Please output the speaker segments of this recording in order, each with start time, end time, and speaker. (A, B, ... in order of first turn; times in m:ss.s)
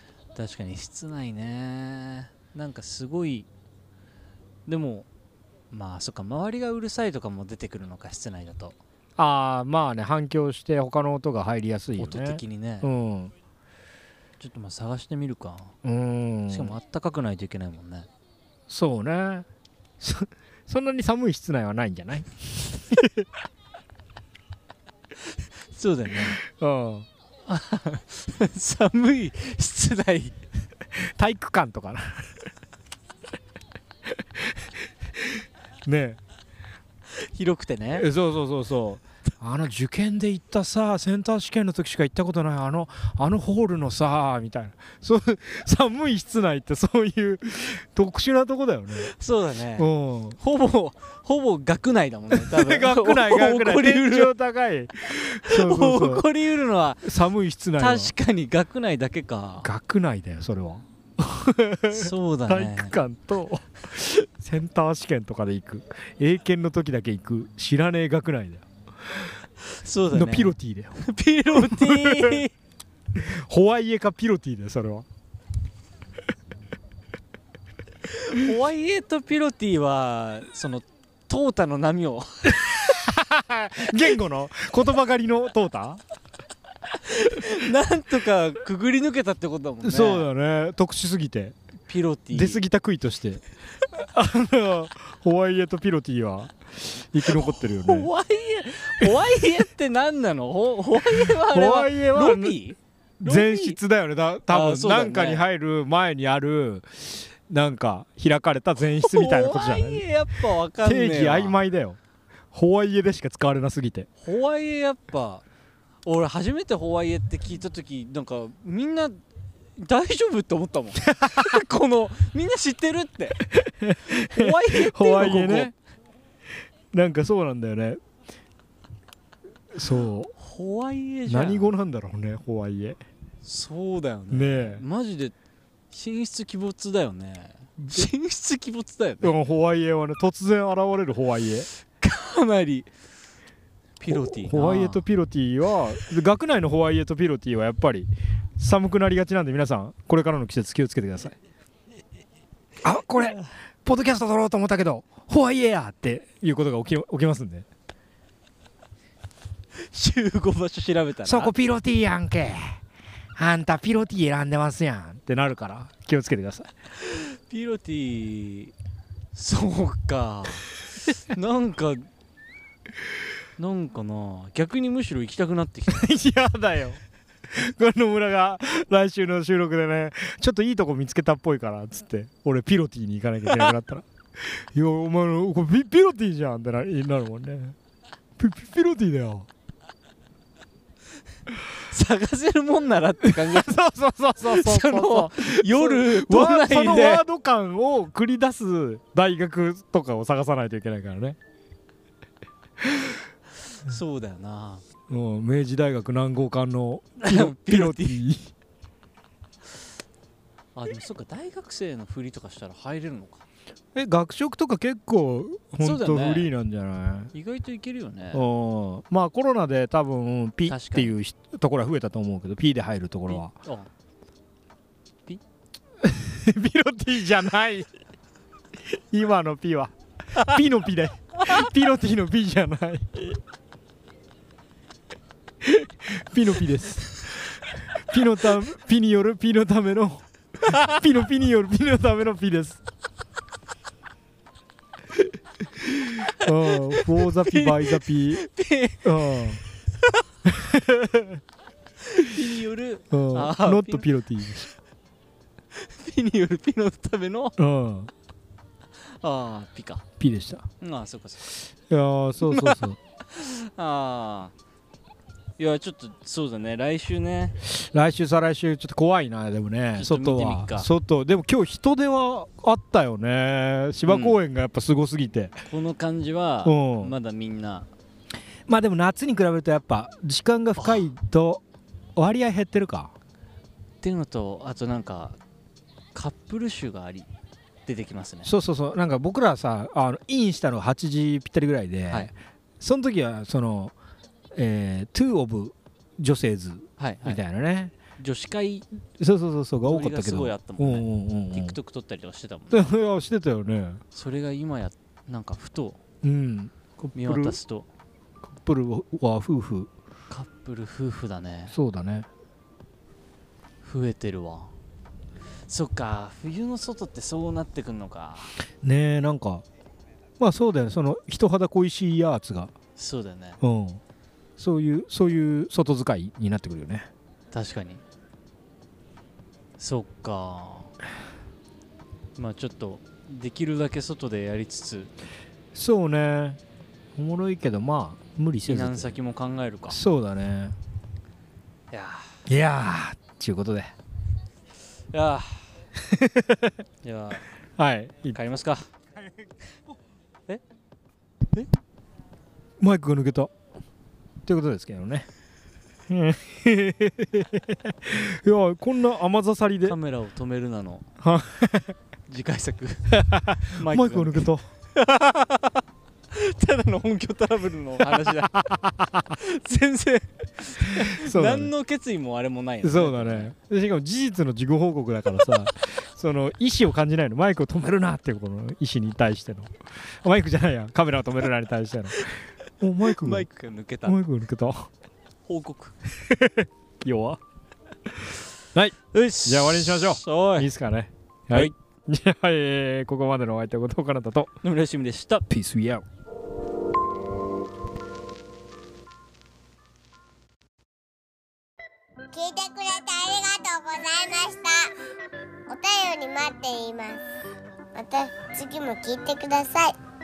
0:00.3-0:03.5 A
0:04.6-0:05.1 A
0:05.7-0:08.8 A
0:09.2-0:13.3 B
0:12.0-0:12.9 A
0:14.4-0:15.7 A
0:15.8-0:16.8 B
0:16.5-0:18.1 A
0:18.7-0:19.5 B
0:20.0-0:23.3 B
0:25.7-0:26.4 A
0:26.4-0:27.1 B
0:27.4-0:30.4 A
0:30.9-0:32.4 B
0:34.1-0:34.6 B
0:35.2-0:36.2 B
0:37.1-0:38.1 A
0:38.0-0:49.1 B
0:49.0-0:54.3 A
0:49.8-0:50.4 B
0:52.3-0:56.3 B
0:55.1-0:57.1 A
0:57.0-0:58.1 B
0:57.8-0:59.7 A
0:59.6-1:08.6 B
1:01.9-1:03.0 A
1:09.6-1:12.5 A
1:10.1-1:12.4 B
1:13.1-1:15.1 B
1:18.1-1:22.9 A
1:22.5-1:26.0 B
1:27.0-1:30.3 A
1:29.8-1:31.6 B
1:31.9-1:32.6 A
1:32.3-1:33.4 B
1:33.9-1:38.1 B
1:37.2-1:43.8 A
1:41.1-1:42.6 B
1:43.2-1:50.0 B
1:44.5-1:45.4 A
1:49.0-1:51.6 A
1:50.8-1:52.0 B
1:52.5-1:54.1 B
1:54.2-1:55.4 A
1:56.0-1:59.2 A
1:59.8-2:03.4 A
2:01.1-2:01.6 B
2:03.5-2:05.7 B
2:04.1-2:05.7 A
2:06.9-2:08.0 B
2:09.7-2:10.3 B
2:10.4-2:11.7 A
2:11.3-2:13.0 B
2:13.4-2:15.3 A
2:14.3-2:14.8 B
2:15.9-2:19.3 A
2:17.8-2:18.1 B
2:19.2-2:21.7 B
2:22.0-2:22.9 A
2:24.0-2:25.0 A
2:24.1-2:31.3 B
2:32.8-2:37.6 B
2:39.8-2:41.5 A
2:41.2-2:42.8 B
2:43.3-2:46.7 B
2:47.0-2:48.7 A
2:49.3-2:50.7 A
2:51.2-2:52.1 A
2:53.6-2:56.1 A
2:55.9-3:07.8 B
3:08.4-3:09.5 B
3:11.8-3:13.8 A
3:13.2-3:21.4 B
3:14.4-3:17.2 A
3:22.8-3:23.2 B
3:23.8-3:24.8 A
3:25.1-3:28.5 B
3:27.2-3:28.2 A
3:30.7-3:33.4 A
3:33.9-3:37.3 B
3:35.8-3:36.5 A
3:37.3-3:38.4 A
3:38.3-3:43.5 B
3:40.6-3:41.1 A
3:43.3-3:43.9 A
3:46.0-3:47.9 B
3:48.9-3:53.4 B
3:55.6-4:02.8 B
4:05.8-4:08.4 B
4:07.2-4:09.1 A
4:09.0-4:09.6 B
4:10.4-4:11.4 B
4:12.0-4:14.1 A
4:13.1-4:14.7 B
4:15.7-4:17.6 A
4:17.6-4:18.1 B
4:19.2-4:20.0 A
4:20.2-4:20.6 B
4:20.8-4:21.6 A
4:21.9-4:23.0 B
4:22.4-4:24.5 A
4:25.6-4:27.6 A
4:27.6-4:35.6 B
4:30.0-4:30.9 A
4:34.0-4:34.4 A
4:35.7-4:37.9 A
4:36.6-4:37.1 B
4:38.7-4:41.6 B
4:40.8-4:41.1 A
4:42.2-4:43.1 B
4:44.0-4:45.4 A
4:46.1-4:47.3 A
4:47.8-4:48.5 A
4:48.4-4:53.9 B
4:54.5-4:57.9 B
4:57.0-4:57.4 A
4:58.2-4:58.8 A
4:59.2-5:01.8 B
4:59.8-5:02.9 A
5:02.7-5:04.0 B
5:04.1-5:06.0 A
5:06.2-5:07.6 B
5:07.1-5:07.9 A
5:08.4-5:09.9 B
5:10.3-5:11.7 A
5:11.7-5:12.3 B
5:13.8-5:14.7 A
5:15.7-5:18.6 A
5:18.8-5:19.6 B
5:20.4-5:22.7 B
5:23.0-5:23.6 A
5:23.6-5:24.0 B
5:24.6-5:27.1 B
5:27.5-5:28.0 A
5:29.8-5:30.9 A
5:32.4-5:35.1 A
5:35.7-5:36.6 B
5:37.1-5:39.1 B
5:38.6-5:40.0 A
5:39.9-5:40.8 B
5:41.9-5:42.4 A
5:42.5-5:43.9 B
5:45.1-5:45.6 A
5:46.0-5:46.8 B
5:47.0-5:47.4 A
5:47.8-5:48.4 B
5:48.3-5:48.8 A
5:52.8-5:53.5 B
5:54.4-5:55.3 B
5:56.1-6:00.0 B
5:59.8-6:01.1 A
6:01.2-6:01.9 B
6:02.3-6:08.6 A
6:03.1-6:04.6 B
6:08.2-6:09.3 B
6:09.4-6:13.5 A
6:11.0-6:11.7 B
6:12.8-6:23.5 B
6:23.1-6:24.2 A
6:24.0-6:24.9 B
6:25.4-6:26.0 A
6:26.2-6:27.4 B
6:28.7-6:34.5 B
6:29.1-6:30.7 A
6:34.6-6:35.4 A
6:35.5-6:36.0 B
6:42.3-6:44.9 C
6:45.7-6:47.2 C
6:47.9-6:49.9 C